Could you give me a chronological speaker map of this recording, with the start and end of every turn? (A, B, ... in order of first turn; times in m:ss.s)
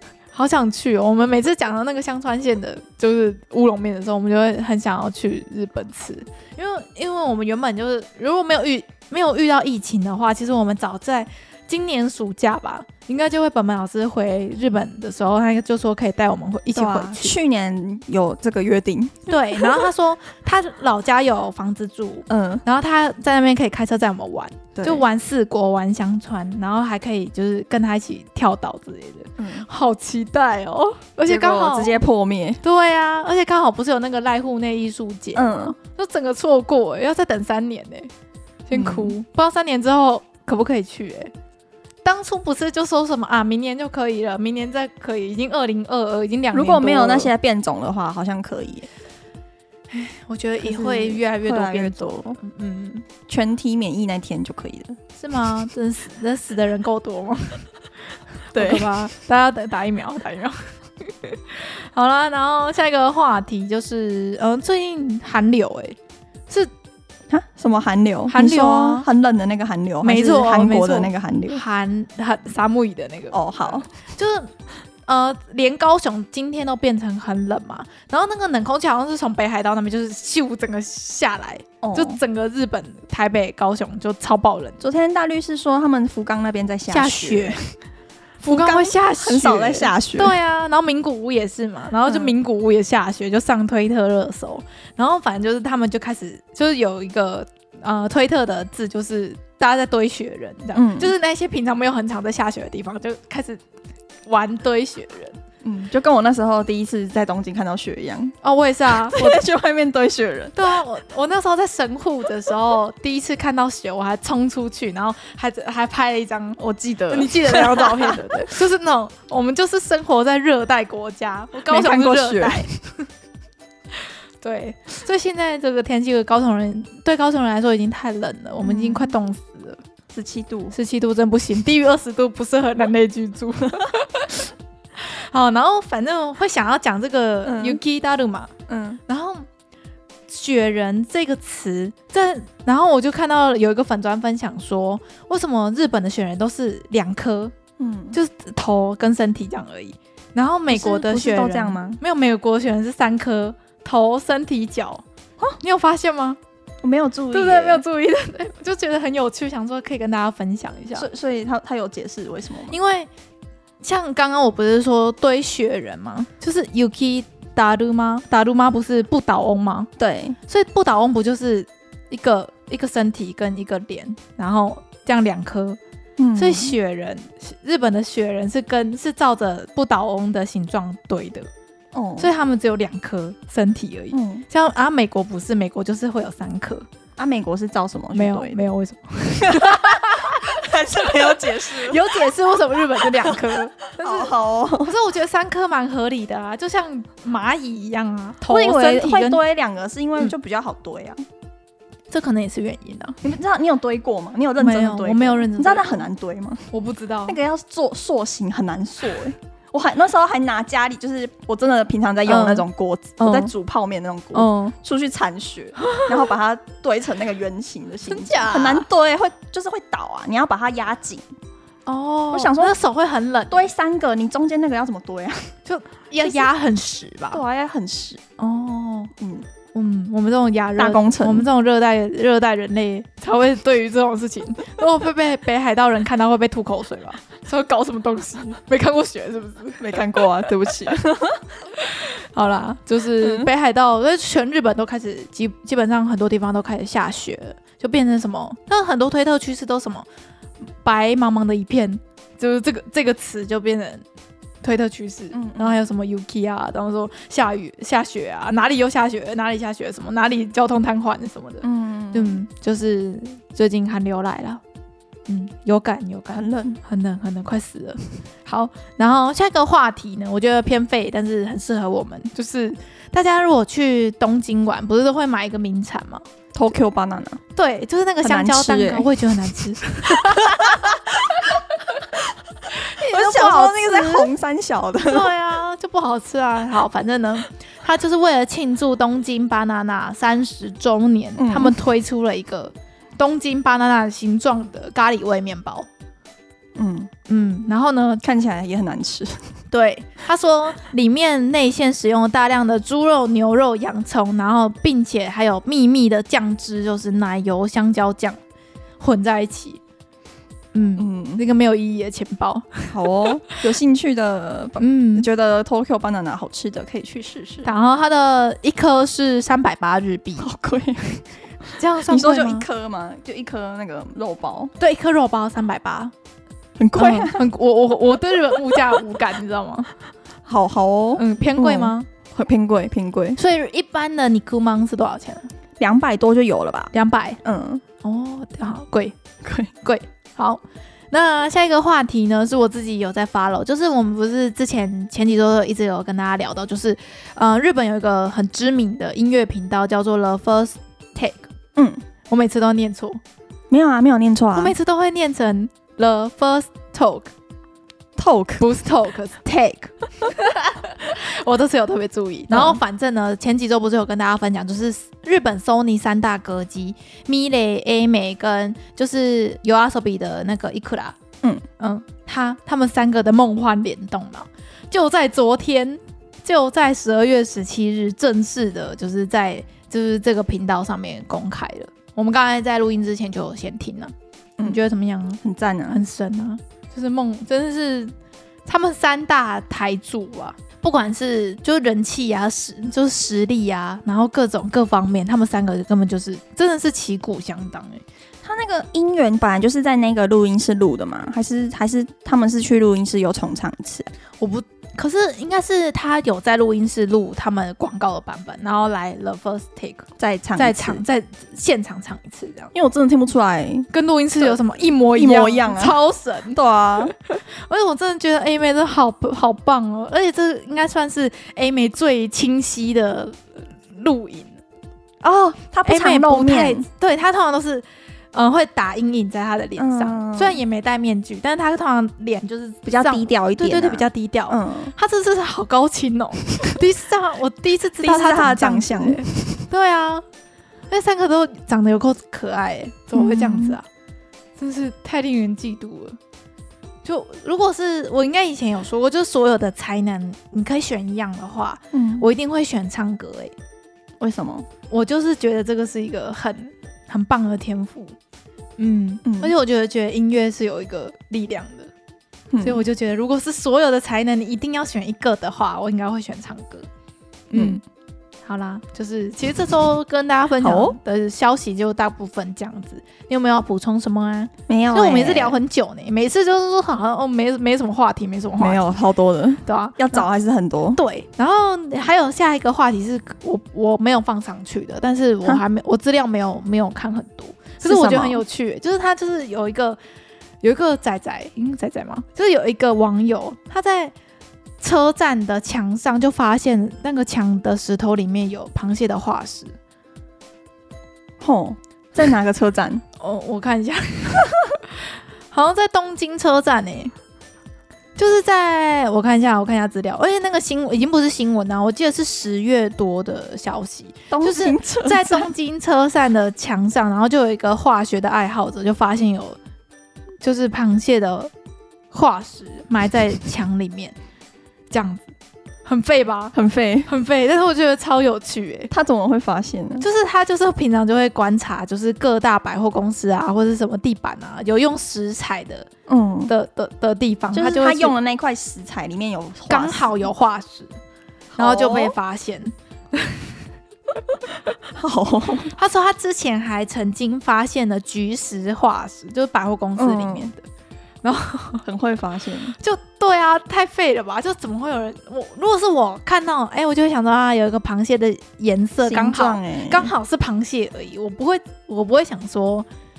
0:00.3-0:17.4 A
0:16.7-0:19.9 B
0:19.3-0:32.0 A
0:22.3-0:22.6 B
0:24.7-0:25.0 B
0:29.4-0:29.6 B
0:31.2-0:32.6 B
0:32.6-0:38.1 A
0:35.4-0:35.8 B
0:38.7-0:41.3 A
0:38.7-0:39.1 B
0:42.0-0:47.3 A
0:46.5-0:48.9 B
0:49.9-0:53.0 A
0:50.6-0:52.4 B
0:53.3-0:55.0 B
0:55.2-0:57.7 A
0:58.5-1:06.0 A
0:58.5-0:58.9 B
1:07.3-1:11.6 B
1:08.3-1:09.1 A
1:10.0-1:14.5 A
1:13.3-1:13.9 B
1:15.1-1:24.8 A
1:21.8-1:22.2 B
1:24.8-1:27.6 B
1:26.9-1:27.7 A
1:28.4-1:43.6 A
1:28.5-1:30.4 B
1:32.1-1:32.3 B
1:40.7-1:41.1 B
1:44.2-1:45.4 A
1:45.6-1:48.4 B
1:48.4-1:49.4 A
1:48.9-1:50.8 B
1:50.5-2:02.8 A
1:56.6-1:58.2 B
2:01.6-2:02.7 B
2:04.4-2:09.8 A
2:08.6-2:09.1 B
2:10.1-2:10.7 B
2:10.7-2:18.5 A
2:17.4-2:17.8 B
2:18.7-2:19.0 B
2:19.1-2:19.5 A
2:20.3-2:27.5 A
2:27.8-2:28.2 B
2:28.1-2:35.0 A
2:30.7-2:32.0 B
2:35.6-2:36.4 A
2:36.8-2:37.8 B
2:37.3-2:41.1 A
2:40.9-2:42.8 B
2:42.7-2:43.1 A
2:43.8-2:49.9 A
2:50.0-2:50.4 B
2:50.5-2:55.8 A
2:56.2-2:56.8 B
2:56.4-3:01.5 A
3:01.9-3:02.3 B
3:02.2-3:06.9 A
3:04.1-3:04.4 B
3:07.2-3:08.6 B
3:08.1-3:10.6 A
3:09.4-3:12.2 B
3:11.4-3:19.4 A
3:13.0-3:13.4 B
3:14.0-3:14.9 B
3:18.5-3:21.2 B
3:22.1-3:23.2 A
3:23.2-3:26.6 B
3:24.6-3:26.1 A
3:26.7-3:27.4 A
3:27.2-3:41.2 B
3:32.3-3:32.6 A
3:33.2-3:33.5 A
3:34.3-3:34.7 A
3:35.8-3:36.2 A
3:38.1-3:38.9 A
3:41.9-3:43.7 A
3:42.3-3:42.8 B
3:43.5-3:45.5 B
3:45.6-3:47.4 A
3:47.3-3:48.2 B
3:48.4-3:49.1 A
3:49.2-3:49.4 B
3:49.7-4:00.3 A
3:50.8-3:51.5 B
3:59.8-4:01.5 B
4:01.8-4:10.0 A
4:03.2-4:03.5 B
4:10.8-4:14.0 A
4:14.6-4:24.6 A
4:15.3-4:15.8 B
4:21.6-4:22.4 B
4:25.3-4:36.2 A
4:26.3-4:26.8 B
4:36.5-4:37.4 B
4:37.6-4:41.4 A
4:38.2-4:39.5 B
4:40.1-4:41.0 B
4:42.7-4:44.3 A
4:43.0-4:45.3 B
4:45.0-4:55.9 A
4:51.4-4:51.8 B
4:56.8-4:57.1 B
4:57.3-4:58.2 A
4:58.2-4:59.5 B
4:59.7-5:08.4 A
5:09.0-5:09.8 A
5:10.7-5:13.6 A
5:11.0-5:11.4 B
5:12.9-5:17.7 B
5:14.8-5:15.3 A
5:17.6-5:20.5 A
5:20.4-5:21.2 B
5:21.7-5:22.6 A
5:22.0-5:24.7 B
5:24.8-5:26.1 A
5:26.8-5:27.4 B
5:26.9-5:29.9 A
5:28.7-5:29.0 B
5:30.4-5:33.4 B
5:31.2-5:32.1 A
5:33.4-5:35.5 A
5:35.8-5:36.9 B
5:36.9-5:37.4 A
5:37.4-5:37.8 B
5:38.0-5:39.2 A
5:39.4-5:39.7 B
5:39.8-5:40.6 A
5:41.1-5:51.5 A
5:51.8-5:52.0 B
5:52.3-5:53.2 A
5:53.7-5:54.7 B
5:54.6-5:57.3 A
5:58.2-5:58.6 B
5:58.6-6:11.2 A
6:02.5-6:02.8 B
6:11.8-6:28.1 A
6:25.4-6:26.0 B
6:28.6-6:38.0 A
6:38.4-6:44.1 B
6:44.4-6:52.7 A
6:50.2-6:51.0 B
6:52.7-6:53.9 B
6:53.9-6:56.6 A
6:54.4-6:56.0 B
6:56.5-6:57.1 B
6:57.3-7:04.6 A
7:05.2-7:06.8 B
7:05.8-7:20.2 A
7:09.8-7:10.6 B
7:12.8-7:14.9 B
7:18.0-7:19.6 B
7:20.9-7:23.8 A
7:23.1-7:23.8 B
7:24.6-7:26.2 A
7:27.0-7:33.5 A
7:31.9-7:32.3 B
7:34.2-7:34.7 B
7:34.9-7:38.2 A
7:38.8-7:41.9 A
7:39.2-7:39.5 B
7:42.5-7:42.8 B
7:42.6-7:46.9 A
7:47.5-7:47.8 A
7:47.5-7:47.8 B
7:48.4-7:58.9 A
7:50.6-7:51.0 B
7:54.7-7:55.6 B
7:58.6-8:01.0 B
7:59.6-8:00.2 A
8:00.9-8:10.0 A
8:07.8-8:08.4 B
8:10.6-8:14.1 A
8:14.8-8:19.7 A
8:21.4-8:23.0 B
8:23.2-8:27.1 A
8:28.2-8:39.6 A
8:34.3-8:35.5 B
8:40.4-8:41.5 A
8:42.1-8:44.2 A
8:44.9-8:45.3 A
8:45.8-8:48.9 A
8:46.5-8:47.1 B
8:48.9-8:50.0 B
8:50.0-8:55.9 A
8:56.1-8:56.5 B
8:56.5-8:58.1 A
8:57.5-9:00.3 B
8:59.7-9:00.9 A
9:01.5-9:02.1 B
9:01.6-9:03.5 A
9:04.9-9:05.7 B
9:05.7-9:10.6 A
9:10.0-9:10.5 B
9:11.2-9:11.8 A
9:11.8-9:12.8 B
9:12.8-9:22.9 A
9:19.0-9:20.1 B